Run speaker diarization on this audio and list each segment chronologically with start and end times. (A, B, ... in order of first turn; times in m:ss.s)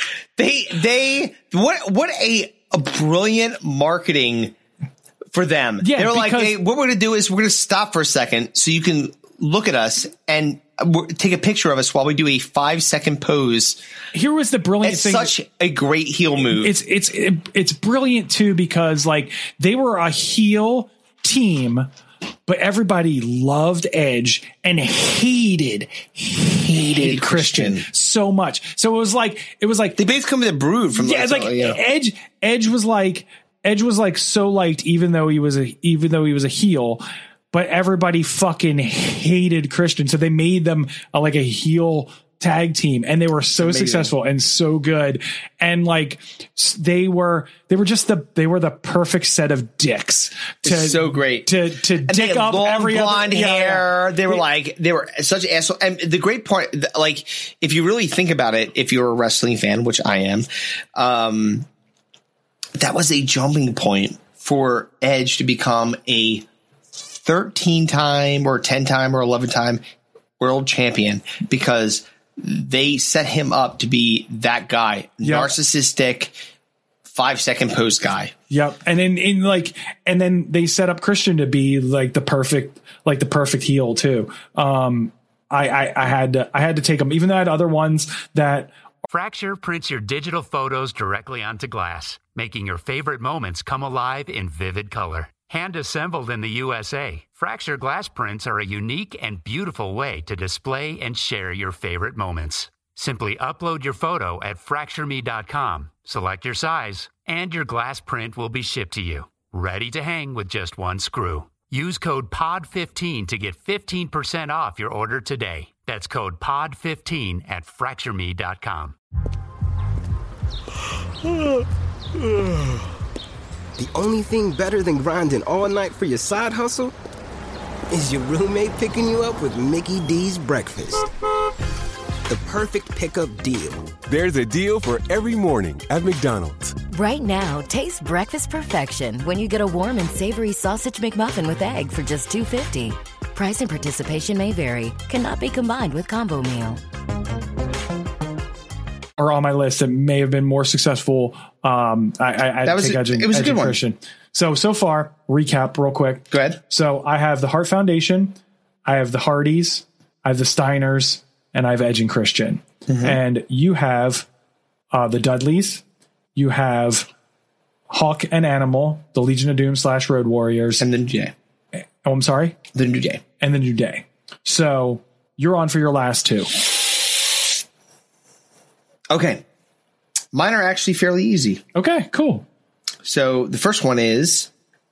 0:00.4-0:04.6 A
0:05.3-0:13.8 A
0:05.8-0:06.6 B
0:14.1-0:15.3 B
0:14.8-0:16.7 A
0:16.5-0:21.9 B
0:22.5-0:30.0 B
0:26.6-0:27.9 A
0:30.0-0:31.8 A
0:30.9-0:54.4 B
0:43.6-0:44.1 A
0:50.6-0:51.5 A
0:52.0-1:01.7 A
1:02.8-1:06.4 A
1:07.1-1:09.8 A
1:10.4-1:16.4 A
1:15.2-1:15.5 B
1:17.1-1:18.3 A
1:18.5-1:28.7 B
1:29.1-1:59.0 C
2:03.8-2:06.9 D
2:07.9-2:11.1 D
2:12.3-2:14.0 D
2:14.0-2:16.8 E
2:16.9-2:26.8 F
2:29.2-2:38.3 B
2:32.6-2:33.8 A
2:36.3-2:36.6 A
2:38.9-2:44.3 B
2:42.9-2:43.2 A
2:44.9-2:45.8 B
2:46.4-2:47.1 B
2:47.9-2:50.8 B
2:50.8-2:51.3 A
2:52.0-2:52.6 B
2:52.7-2:53.2 A
2:53.4-2:56.6 B
2:59.1-2:59.4 A
3:00.3-3:01.6 A
3:01.7-3:02.4 B
3:03.0-3:04.5 A